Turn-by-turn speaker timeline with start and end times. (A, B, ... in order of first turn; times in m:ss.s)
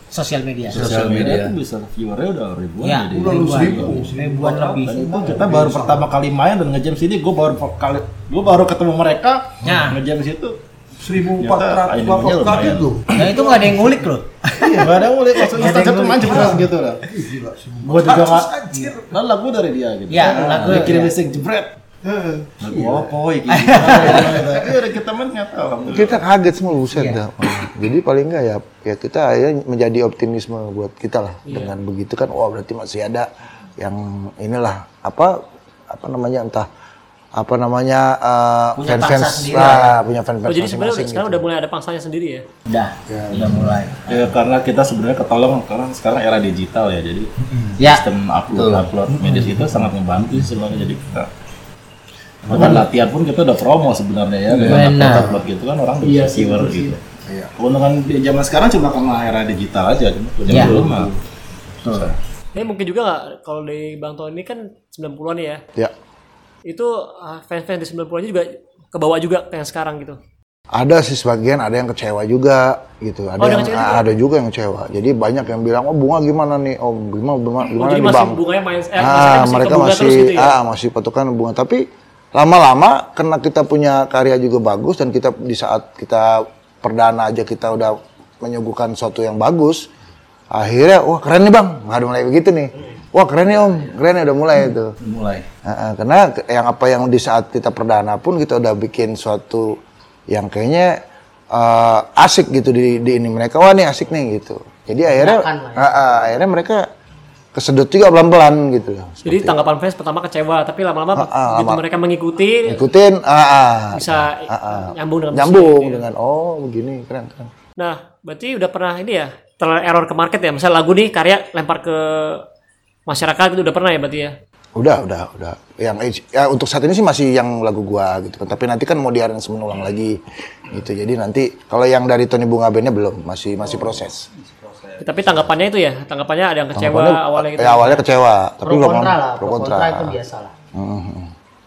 0:00.1-0:00.9 A
0:00.7-0:10.6 B
0:00.7-0:01.5 C
0:02.8-0:05.6 A
0:03.1-0:06.1 D
0:09.6-0:10.0 A
0:11.0-0:13.9 D
0:11.4-0:13.0 B
0:13.2-0:16.6 A
0:14.6-0:17.1 B
0:17.1-0:19.1 D
0:17.8-0:18.5 B
0:19.0-0:21.8 B
0:20.1-0:21.1 A
0:20.3-0:20.6 D
0:22.1-0:23.0 D
0:22.6-0:26.2 B
0:23.5-0:24.6 A
0:25.9-0:36.7 D
0:26.9-0:27.2 A
0:31.5-0:31.7 E
0:37.4-0:41.4 D
0:38.8-0:40.0 A
0:40.5-0:42.4 E
0:42.7-0:44.3 A
0:43.1-0:43.7 D
0:44.1-0:51.3 B
0:48.5-0:48.9 C
0:52.5-0:57.0 B
0:52.5-0:52.8 D
0:54.5-0:54.9 C
0:54.7-0:55.4 A
0:55.0-0:55.3 D
0:56.1-0:57.0 E
0:57.6-1:01.1 B
1:00.5-1:01.1 C
1:02.6-1:05.6 E
1:06.7-1:10.2 E
1:10.7-1:18.4 D
1:13.4-1:14.0 E
1:17.8-1:20.6 E
1:19.0-1:29.9 D
1:30.5-1:35.0 D
1:35.0-1:35.5 C
1:35.6-1:39.8 D
1:40.3-1:41.0 D
1:41.5-1:46.8 D
1:45.1-1:45.9 A
1:47.6-1:49.6 D
1:49.2-1:52.8 E
1:51.2-1:51.8 D
1:52.6-1:57.5 D
1:53.9-1:56.0 E
1:57.8-2:02.4 E
2:03.1-2:04.3 E
2:04.8-2:14.3 D
2:14.6-2:15.0 C
2:15.0-2:18.0 E
2:16.8-2:20.2 D
2:18.6-2:20.5 A
2:20.7-2:21.3 D